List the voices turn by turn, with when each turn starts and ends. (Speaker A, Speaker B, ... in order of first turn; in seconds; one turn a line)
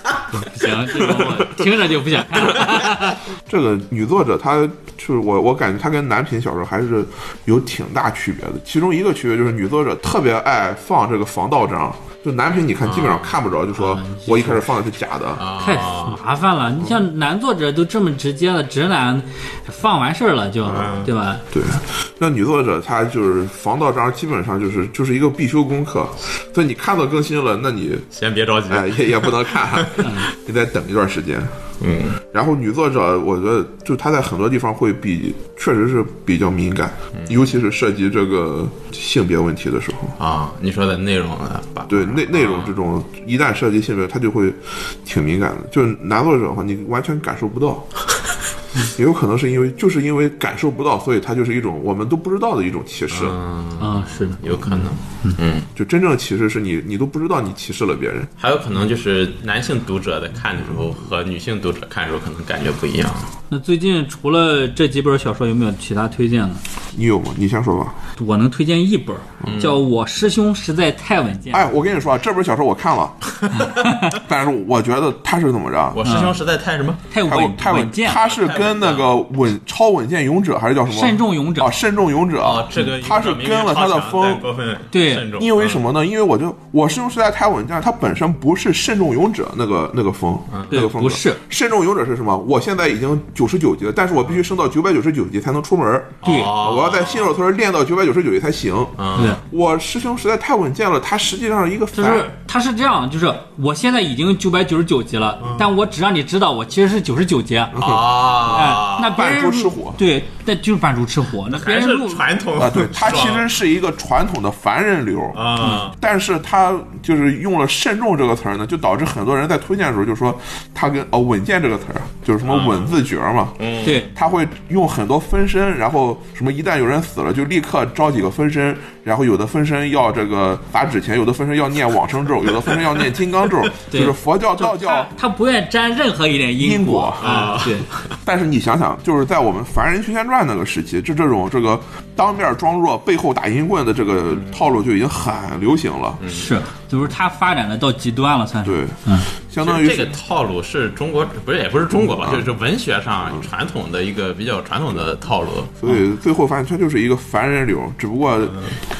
Speaker A: 0.3-3.2
Speaker B: 1.1-1.6
Speaker B: 3.5-15.4
Speaker C: 12.8-13.4
Speaker A: 13.8-14.5
Speaker C: 15.4-16.2
Speaker A: 15.6-21.4
Speaker C: 20.6-21.1
Speaker B: 21.5-28.1
Speaker C: 28.1-30.1
Speaker B: 28.7-31.5
Speaker A: 30.0-30.3
Speaker C: 31.8-32.2
Speaker B: 32.3-40.2
Speaker C: 37.1-37.5
Speaker C: 40.2-42.7
Speaker B: 41.9-47.9
Speaker B: 48.9-53.4
Speaker C: 53.1-55.7
Speaker A: 53.8-55.4
Speaker B: 55.8-58.3
Speaker C: 58.4-63.3
Speaker A: 63.5-66.6
Speaker B: 66.9-68.0
Speaker A: 68.2-71.8
Speaker C: 69.4-69.8
Speaker B: 71.5-73.2
Speaker C: 73.4-73.7
Speaker A: 73.6-74.2
Speaker B: 74.1-76.0
Speaker C: 75.9-77.0
Speaker A: 76.0-76.4
Speaker A: 77.1-78.2
Speaker B: 77.3-84.5
Speaker C: 78.1-79.1
Speaker A: 80.9-81.7
Speaker C: 82.4-85.8
Speaker A: 84.9-85.3
Speaker B: 85.3-102.3
Speaker C: 90.5-90.8
Speaker A: 90.7-91.4
Speaker C: 96.2-97.3
Speaker A: 96.2-96.5
Speaker C: 99.0-99.4
Speaker A: 101.9-107.8
Speaker C: 105.4-105.7
Speaker B: 107.7-110.0
Speaker C: 107.8-109.2
Speaker A: 108.4-112.3
Speaker C: 111.5-113.5
Speaker B: 112.6-135.1
Speaker C: 115.3-116.0
Speaker A: 115.6-115.9
Speaker C: 122.5-123.0
Speaker C: 123.6-124.0
Speaker A: 123.8-124.1
Speaker A: 133.9-137.9
Speaker B: 136.6-137.5
Speaker C: 137.2-138.0
Speaker B: 138.2-146.2
Speaker C: 146.2-146.5
Speaker A: 146.3-149.3
Speaker B: 148.7-150.1
Speaker C: 149.6-155.8
Speaker B: 152.0-152.4
Speaker B: 155.8-158.6